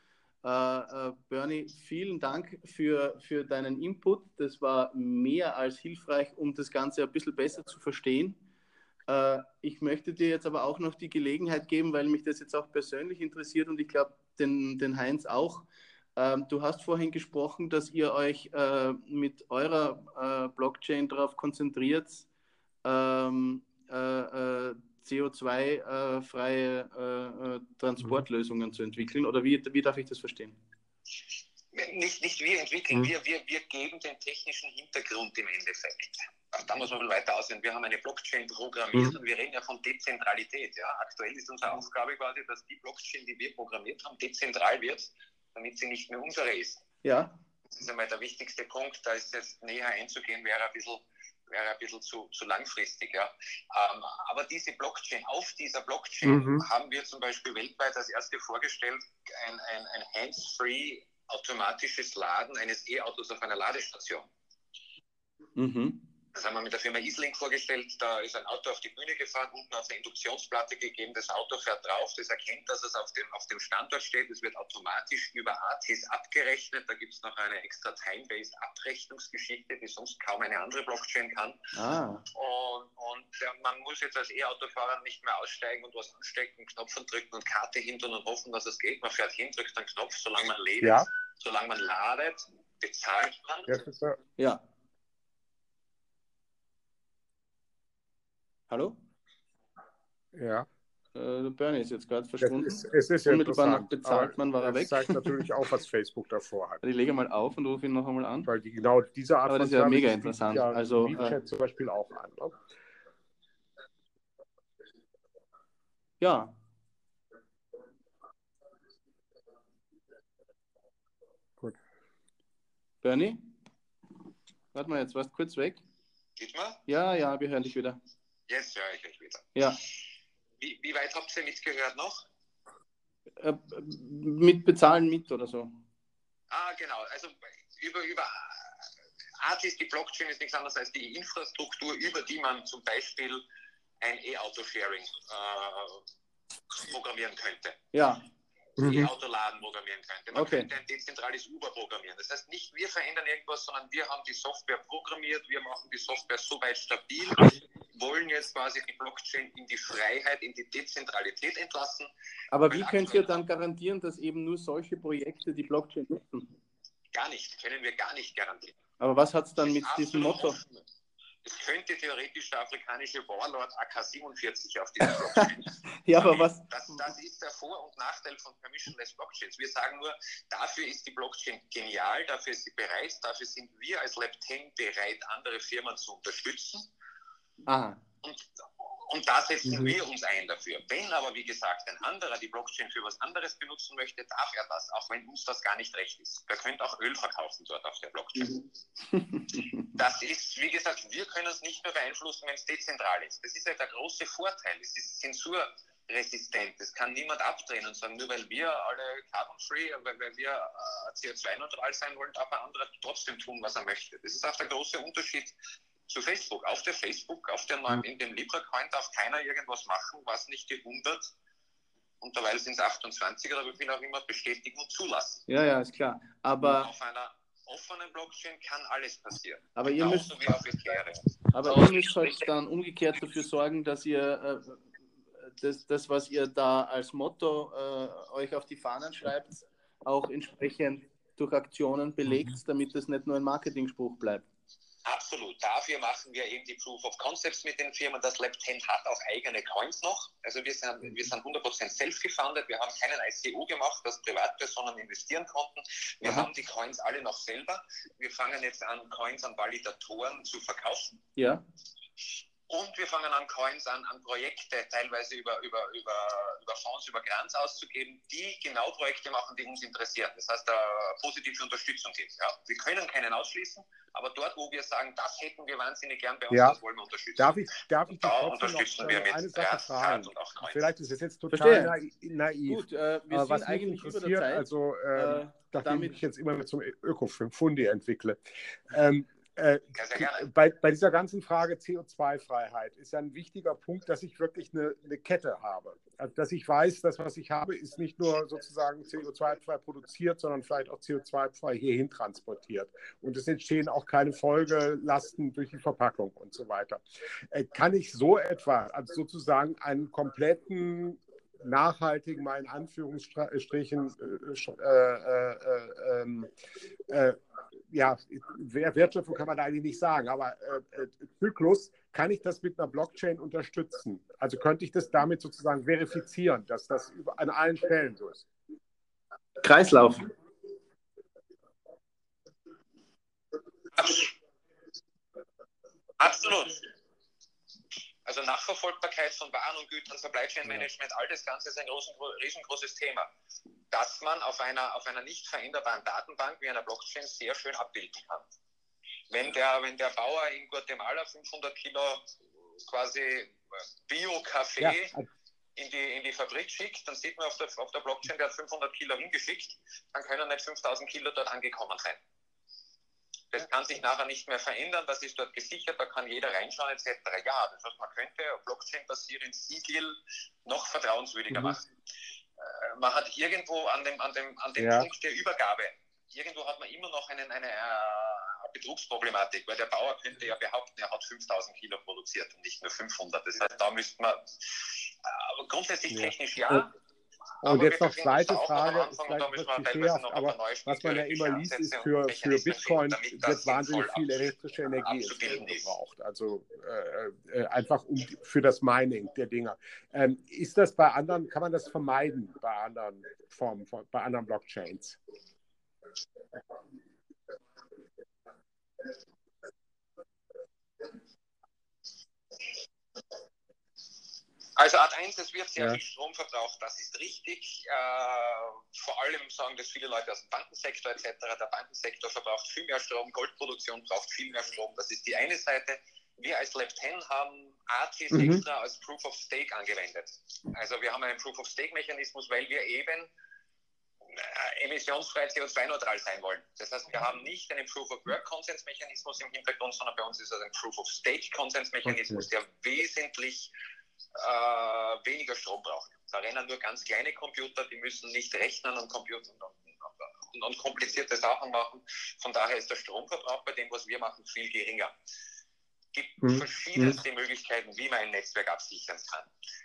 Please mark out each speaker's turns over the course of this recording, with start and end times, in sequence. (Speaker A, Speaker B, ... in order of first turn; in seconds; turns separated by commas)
Speaker A: 0.4-8.4, Speaker A: 9.1-22.3, Speaker A: 22.8-30.6, Speaker B: 31.7-46.8, Speaker A: 47.0-47.3, Speaker B: 47.7-64.3, Speaker C: 56.2-56.6, Speaker A: 65.5-66.0, Speaker B: 66.3-81.6, Speaker A: 81.7-82.2, Speaker B: 82.3-93.8, Speaker C: 90.8-91.1, Speaker C: 93.7-94.2, Speaker A: 98.7-99.0, Speaker C: 100.3-100.7, Speaker A: 101.1-105.5, Speaker C: 102.4-106.8, Speaker A: 106.8-108.5, Speaker C: 108.5-112.5, Speaker A: 109.5-111.4, Speaker A: 116.2-116.5, Speaker A: 123.0-123.4, Speaker A: 124.7-125.8, Speaker B: 126.4-126.8, Speaker A: 126.9-128.0, Speaker B: 128.5-129.9, Speaker B: 130.6-132.2, Speaker A: 133.4-135.7, Speaker B: 136.5-138.9, Speaker B: 139.4-143.4, Speaker B: 144.0-146.0, Speaker B: 146.8-147.8, Speaker A: 147.9-148.2, Speaker C: 148.8-149.1, Speaker B: 148.8-162.1, Speaker A: 150.3-150.7, Speaker A: 162.5-166.5, Speaker B: 162.7-163.3, Speaker B: 167.1-168.8, Speaker A: 169.0-170.6, Speaker B: 169.6-170.8, Speaker B: 171.4-186.9, Speaker A: 175.0-176.6, Speaker A: 187.7-188.0, Speaker B: 188.2-198.6, Speaker A: 199.1-199.7, Speaker B: 199.9-215.5, Speaker B: 216.1-221.3, Speaker B: 222.2-225.4, Speaker A: 225.5-226.9, Speaker B: 226.6-232.3, Speaker A: 229.8-230.3, Speaker A: 231.5-234.8, Speaker A: 235.4-244.5, Speaker B: 245.0-261.2, Speaker A: 256.2-256.5, Speaker A: 261.4-261.6, Speaker B: 262.7-280.9, Speaker C: 276.5-276.8, Speaker C: 277.4-316.5, Speaker A: 281.5-281.9, Speaker A: 282.7-286.2, Speaker B: 289.9-290.5, Speaker C: 317.1-317.4, Speaker C: 317.9-328.5, Speaker A: 329.6-330.3, Speaker B: 334.0-334.3, Speaker B: 336.2-336.9, Speaker B: 338.2-343.3, Speaker B: 343.9-348.5, Speaker B: 349.3-355.1, Speaker C: 354.8-355.3, Speaker B: 355.8-362.2, Speaker B: 363.5-371.9, Speaker B: 372.6-386.9, Speaker C: 374.8-375.1, Speaker C: 386.1-386.9, Speaker B: 387.6-394.5, Speaker C: 387.6-405.2, Speaker B: 395.0-395.9, Speaker B: 414.8-433.3, Speaker C: 428.3-428.6, Speaker B: 434.3-443.7, Speaker C: 442.1-442.4, Speaker B: 444.4-455.1, Speaker B: 456.1-459.5, Speaker C: 456.4-457.2